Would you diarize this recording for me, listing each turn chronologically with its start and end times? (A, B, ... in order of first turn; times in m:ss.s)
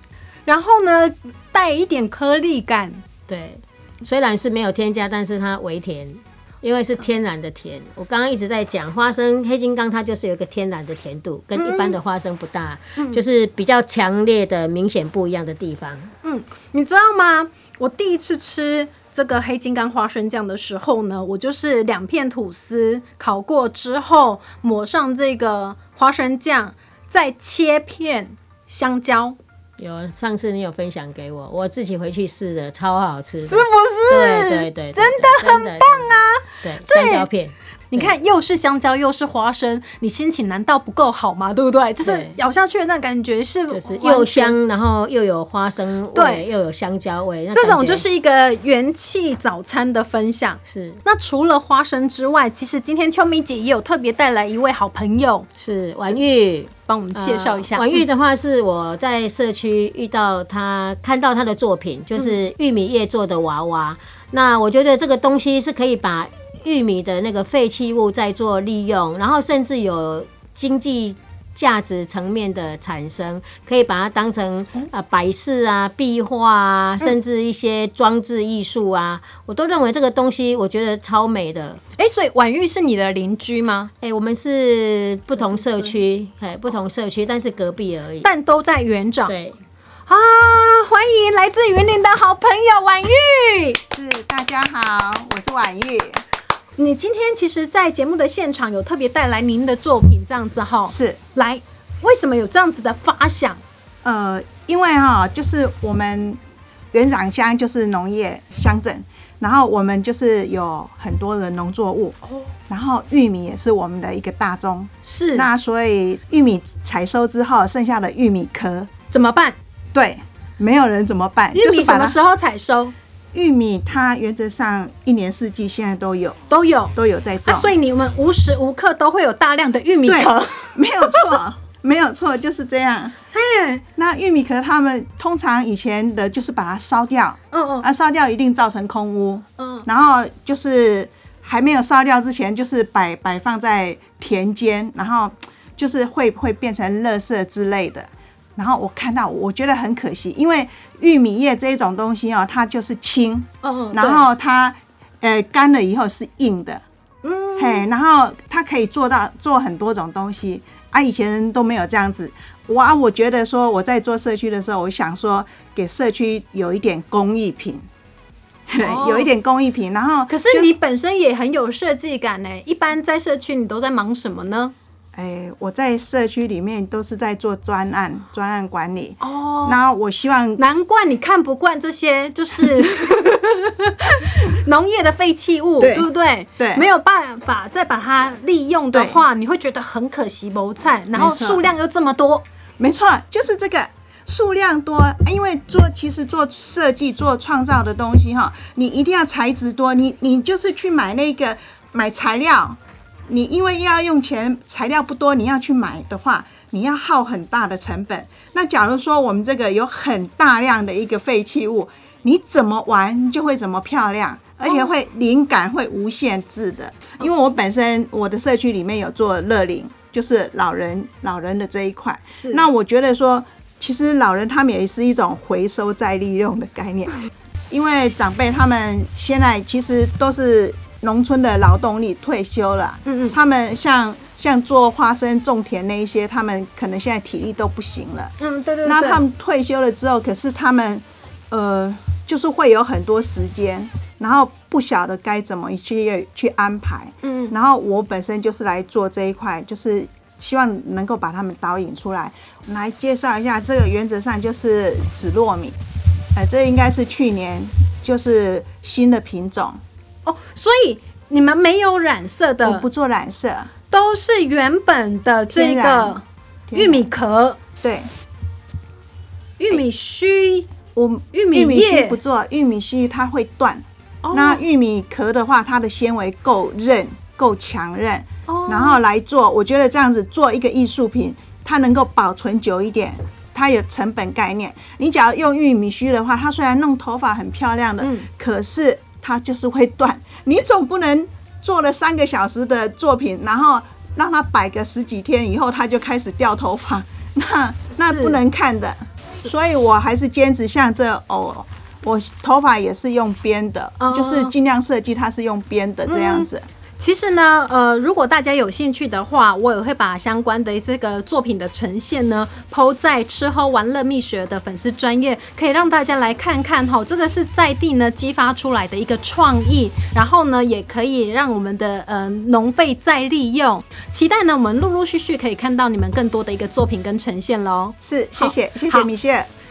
0:00.4-0:03.0 A
0:03.3-0:16.1 B
0:11.6-0:12.0 A
0:16.2-0:29.4 A
0:29.8-0:38.1 B
0:33.4-0:37.3 A
0:37.9-0:44.5 A
0:42.0-0:42.4 B
0:43.7-0:48.0 B
0:46.1-0:46.4 A
0:47.5-0:55.5 A
0:50.6-0:51.0 B
0:55.6-1:21.8 B
0:56.9-0:58.0 A
1:22.0-1:23.9 A
1:24.0-1:28.3 B
1:28.2-1:29.3 A
1:29.3-1:29.6 B
1:30.1-1:33.8 A
1:33.9-1:36.2 C
1:36.8-1:43.6 A
1:40.9-1:41.2 C
1:44.0-1:46.4 C
1:46.9-1:58.9 C
1:55.0-1:55.5 A
1:59.1-1:59.6 A
1:59.9-2:02.2 C
2:01.5-2:02.9 A
2:03.3-2:06.4 C
2:06.5-2:06.9 A
2:06.9-2:07.7 C
2:07.4-2:11.3 A
2:10.0-2:13.1 C
2:13.3-2:13.8 A
2:14.0-2:36.8 C
2:17.5-2:17.8 A
2:19.6-2:19.8 A
2:33.6-2:34.3 A
2:37.2-2:37.8 A
2:37.6-2:47.8 C
2:48.7-2:50.7 C
2:48.8-2:49.3 A
2:50.3-2:54.7 A
2:55.1-3:00.6 C
2:59.2-2:59.8 A
3:00.6-3:03.4 A
3:04.0-3:12.4 A
3:05.8-3:06.9 C
3:08.9-3:09.2 C
3:11.1-3:11.6 C
3:12.8-4:15.8 C
3:42.4-3:42.6 A
3:53.0-3:53.3 A
3:58.4-3:59.2 A
4:07.2-4:07.5 A
4:16.3-4:19.8 C
4:20.2-4:22.8 A
4:22.6-4:23.7 C
4:23.9-4:26.2 A
4:25.5-4:27.1 C
4:26.7-4:27.6 A
4:27.8-4:28.1 C
4:29.6-4:30.7 A
4:30.9-5:06.6 C
4:31.3-4:32.2 A
4:34.2-4:34.6 A
4:38.5-4:39.0 A
4:48.0-4:48.3 A
4:58.0-4:58.4 A
5:04.0-5:04.5 A
5:06.1-5:29.1 A
5:28.0-5:29.5 C